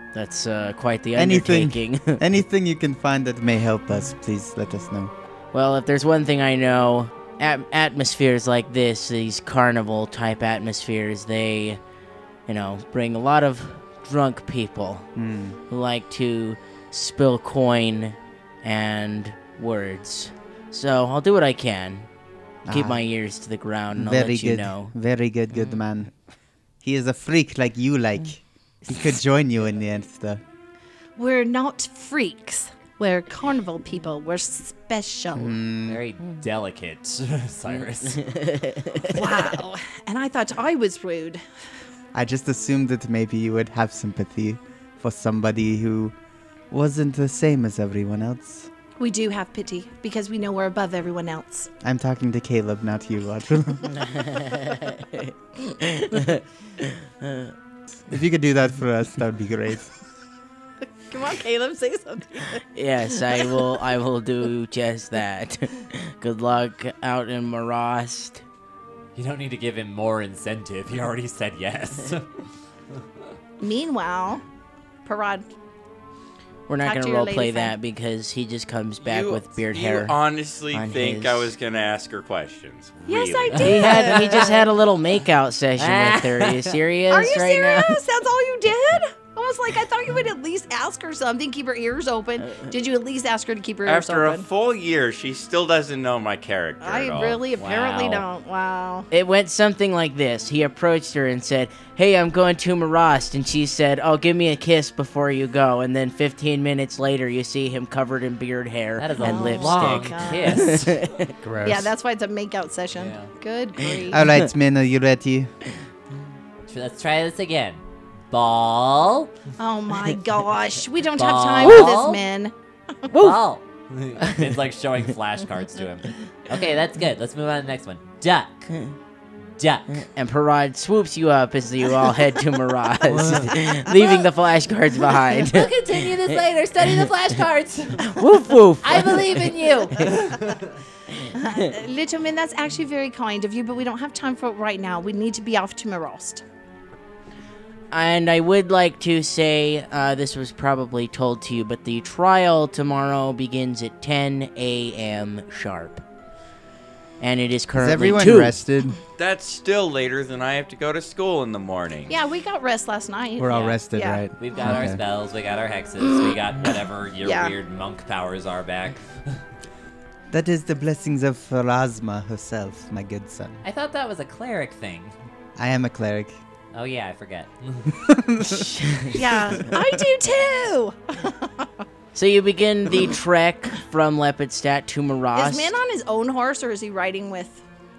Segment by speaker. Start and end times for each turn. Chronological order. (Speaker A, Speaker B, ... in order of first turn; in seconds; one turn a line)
Speaker A: 0.1-2.2
Speaker B: 1.1-5.1
Speaker A: 5.5-11.8
Speaker A: 12.5-15.1
Speaker B: 15.2-15.6
Speaker A: 15.7-22.1
Speaker B: 22.6-23.0
Speaker A: 22.7-24.9
Speaker B: 23.9-26.1
Speaker B: 26.8-30.4
Speaker C: 31.1-35.6
Speaker B: 35.3-36.0
Speaker D: 35.9-38.2
Speaker A: 38.0-39.2
Speaker C: 39.0-41.4
Speaker B: 42.1-46.1
Speaker B: 46.7-48.7
Speaker C: 49.0-51.7
Speaker B: 51.8-54.0
Speaker A: 54.0-57.5
Speaker B: 58.1-59.9
Speaker C: 61.1-62.6
Speaker A: 62.7-68.4
Speaker C: 63.3-63.6
Speaker D: 69.1-72.3
Speaker C: 73.6-74.4
Speaker C: 75.0-75.5
Speaker A: 76.7-80.2
Speaker C: 76.8-77.7
Speaker E: 79.0-83.8
Speaker A: 80.7-81.5
Speaker C: 83.1-84.7
Speaker D: 83.6-84.1
Speaker A: 83.6-88.0
Speaker D: 85.8-86.8
Speaker C: 87.1-94.5
Speaker E: 93.8-97.4
Speaker C: 96.8-99.1
Speaker D: 97.6-98.2
Speaker A: 99.1-111.3
Speaker D: 109.0-111.0
Speaker C: 109.2-110.9
Speaker B: 111.4-111.9
Speaker C: 111.6-114.3
Speaker D: 113.0-113.3
Speaker B: 114.1-115.5
Speaker D: 116.6-119.3
Speaker C: 119.6-122.5
Speaker D: 121.2-122.2
Speaker A: 121.6-121.9
Speaker A: 123.1-123.4
Speaker D: 123.1-128.7
Speaker D: 129.6-130.0
Speaker A: 130.0-136.1
Speaker D: 133.1-133.6
Speaker C: 133.9-134.2
Speaker D: 135.4-138.2
Speaker A: 138.0-140.1
Speaker D: 138.8-140.6
Speaker C: 141.3-146.4
Speaker A: 147.9-156.0
Speaker A: 157.2-158.6
Speaker B: 157.8-159.0
Speaker E: 159.2-162.1
Speaker C: 162.1-164.8
Speaker B: 163.4-165.0
Speaker D: 163.5-163.8
Speaker D: 164.4-169.4
Speaker C: 166.0-167.5
Speaker B: 170.3-173.6
Speaker D: 173.6-175.1
Speaker B: 175.6-176.4
Speaker D: 176.7-177.9
Speaker B: 178.0-180.0
Speaker A: 178.5-179.1
Speaker C: 179.1-181.7
Speaker A: 182.1-185.7
Speaker C: 185.3-187.6